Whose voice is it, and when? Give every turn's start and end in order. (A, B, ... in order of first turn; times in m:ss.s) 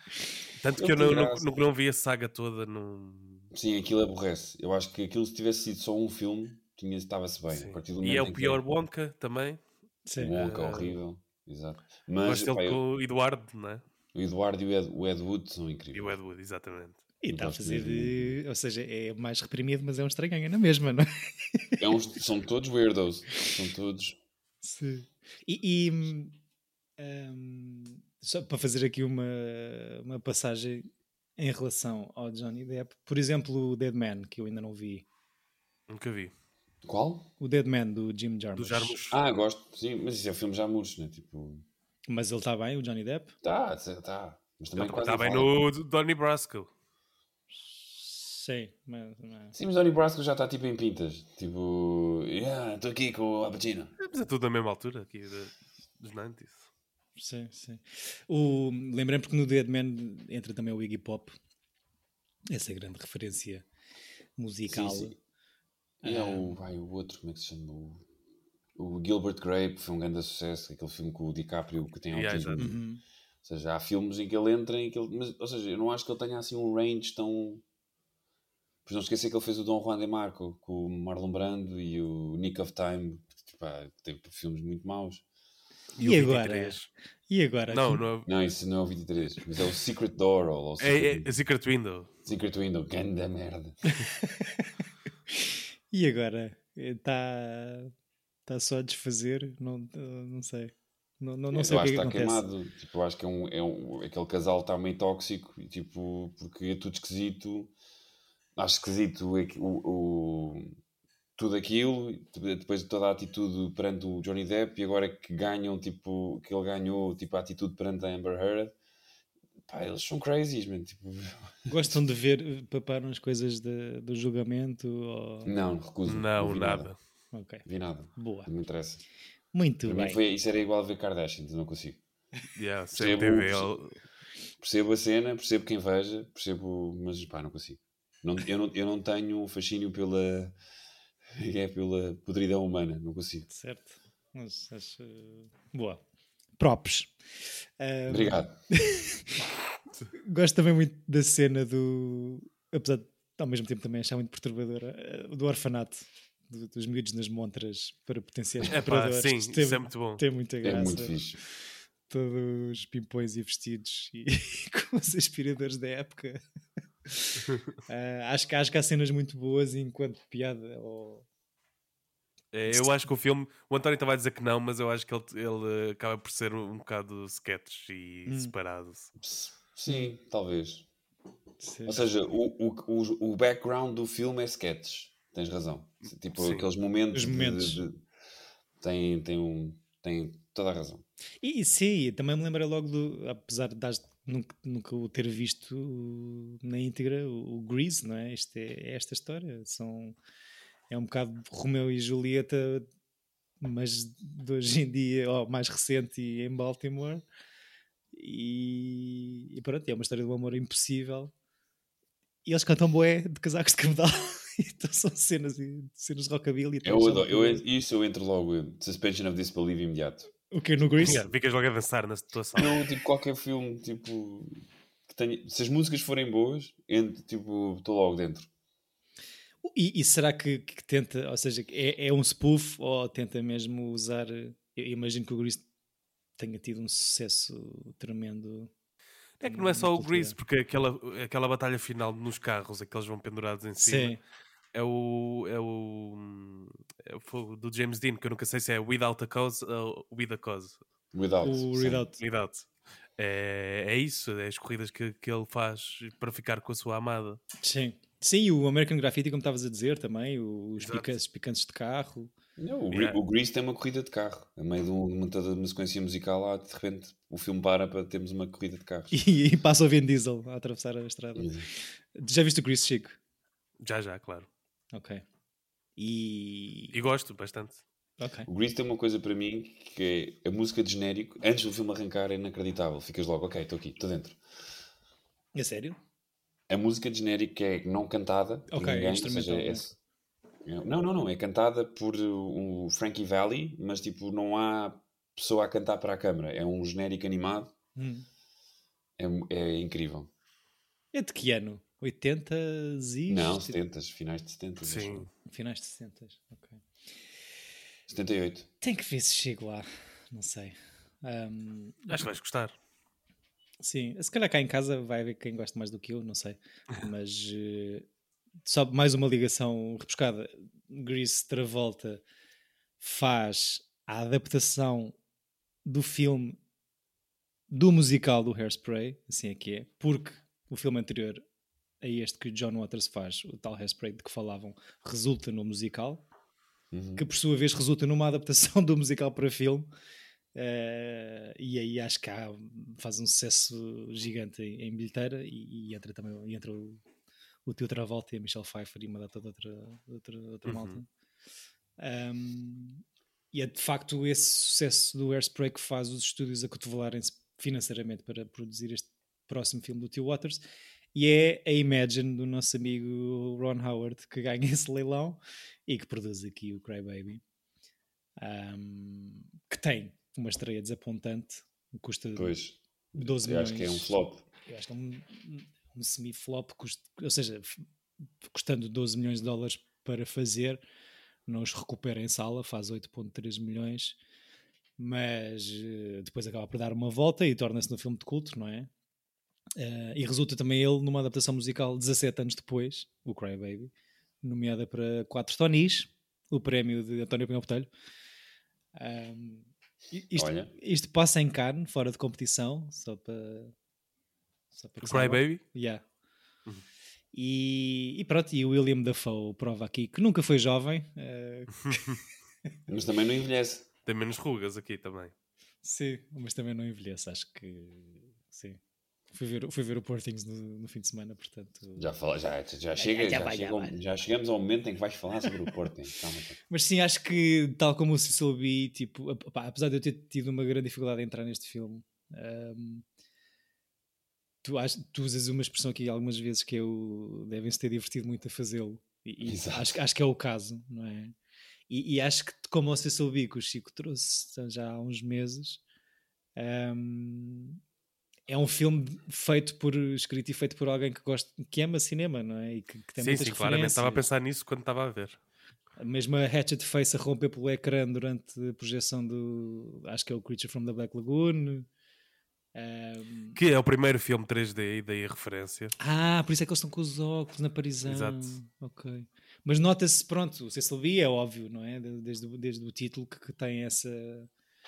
0:00.6-0:03.5 A
0:00.8-0:01.5 B
0:03.5-0:08.6 B
0:07.5-0:09.6 A
0:10.1-0:10.3 C
0:10.2-0:12.8 B
0:10.3-0:11.0 A
0:12.2-0:13.8 A
0:14.1-0:16.2 B
0:15.9-0:17.0 A
0:17.2-0:21.8 C
0:17.3-0:18.4 B
0:21.8-0:24.2 B
0:24.6-0:26.4 C
0:27.0-0:35.0 C
0:35.9-0:36.3 A
0:36.8-0:37.3 B
0:37.4-0:39.0 C
0:38.6-0:39.2 A
0:39.1-0:41.6 B
0:42.1-0:43.3 C
0:43.4-0:45.5 B
0:44.8-0:46.7 A
0:47.6-0:49.6 C
0:49.5-0:54.0 B
0:54.0-0:56.7 A
0:57.2-1:01.4 C
1:02.5-1:03.6 C
1:04.4-1:05.2 C
1:04.7-1:05.2 B
1:06.0-1:06.6 C
1:06.0-1:08.0 B
1:08.8-1:12.8 B
1:12.1-1:12.7 A
1:12.6-1:13.0 C
1:13.4-1:17.6 B
1:18.9-1:25.2 B
1:26.0-1:26.9 A
1:26.0-1:28.0 C
1:27.7-1:28.3 A
1:28.3-1:31.3 B
1:30.8-1:32.1 A
1:32.2-1:33.8 B
1:34.0-1:34.7 C
1:35.3-1:37.9 C
1:38.5-1:42.5 C
1:41.5-1:47.7 B
1:48.6-1:50.7 B
1:51.4-1:58.7 B
1:59.7-2:02.0 B
2:01.7-2:05.5 C
2:05.4-2:06.9 B
2:06.1-2:07.0 A
2:07.3-2:07.6 C
2:07.6-2:09.0 B
2:08.2-2:08.5 C
2:09.5-2:10.2 C
2:09.8-2:12.0 B
2:12.6-2:14.0 A
2:12.9-2:13.7 B
2:14.6-2:20.6 B
2:21.4-2:23.5 B
2:23.5-2:26.0 C
2:26.6-2:27.1 C
2:27.8-2:29.4 C
2:28.1-2:28.6 B
2:30.2-2:41.2 C
2:38.7-2:40.2 A
2:40.6-2:41.4 B
2:42.1-2:46.4 C
2:47.1-2:51.2 C
2:52.5-2:59.1 A
2:58.3-2:58.5 C
2:59.2-3:00.9 B
3:01.6-3:02.0 C
3:01.8-3:08.0 B
3:06.4-3:06.7 A
3:07.1-3:07.8 C
3:08.8-3:11.0 B
3:11.4-3:20.2 C
3:20.9-3:22.9 C
3:23.6-3:27.2 C
3:28.1-3:31.3 C
3:32.4-3:37.6 C
3:36.8-3:40.3 B
3:40.5-3:41.3 C
3:41.0-3:42.8 A
3:42.6-3:48.5 B
3:49.6-3:55.6 C
3:56.4-3:58.7 C
3:59.4-4:04.2 A
3:59.4-4:00.4 C
4:03.8-4:04.2 C
4:04.7-4:10.8 A
4:11.1-4:12.0 B
4:11.4-4:12.2 C
4:12.2-4:17.4 A
4:17.6-4:22.3 C
4:20.8-4:21.1 A
4:22.6-4:29.1 B
4:22.9-4:23.2 A
4:29.1-4:33.2 C
4:31.4-4:31.7 B
4:33.8-4:34.5 A
4:34.9-4:35.2 C
4:36.0-4:37.0 C
4:36.9-4:37.8 A
4:38.2-4:38.5 C
4:38.5-4:44.4 B
4:45.6-4:46.0 C
4:46.7-4:50.0 B
4:48.7-4:49.8 C
4:50.7-4:57.7 B
4:58.0-4:58.3 C
4:59.2-5:00.3 B
5:01.1-5:03.8 C
5:03.3-5:05.3 B
5:04.8-5:05.3 A
5:05.5-5:06.8 C
5:08.1-5:08.7 B
5:08.8-5:12.2 C
5:12.1-5:12.8 A
5:13.8-5:18.1 C
5:18.7-5:22.2 C
5:23.0-5:25.2 C
5:25.8-5:26.6 C
5:27.7-5:31.4 C
5:32.0-5:36.2 C
5:36.9-5:37.2 B
5:37.2-5:39.9 C
5:40.6-5:47.0 C
5:47.7-5:51.1 C
5:50.7-5:51.0 A
5:52.0-6:00.6 C
6:01.2-6:07.4 C
6:08.4-6:12.6 C
6:12.4-6:14.4 B
6:13.1-6:14.1 C
6:14.7-6:17.8 C
6:18.4-6:20.8 C
6:21.5-6:24.2 C
6:25.0-6:28.9 C
6:29.8-6:33.9 C
6:34.4-6:37.9 C
6:39.0-6:43.7 C
6:40.3-6:40.7 B
6:44.7-6:46.0 C
6:45.0-6:45.6 A
6:47.3-6:52.2 C
6:52.9-6:53.9 B
6:54.1-6:55.3 A
6:55.8-6:58.8 C
6:59.3-7:02.1 C
7:02.0-7:06.6 B
7:03.0-7:04.0 C
7:06.7-7:13.0 C
7:14.6-7:21.3 C
7:19.4-7:20.0 B
7:21.9-7:25.8 C
7:26.6-7:27.8 C
7:28.5-7:34.2 C
7:33.2-7:35.4 A
7:36.0-7:41.9 C
7:42.8-7:43.6 C
7:43.6-7:46.0 A
7:46.0-7:54.5 C
7:48.0-7:48.6 A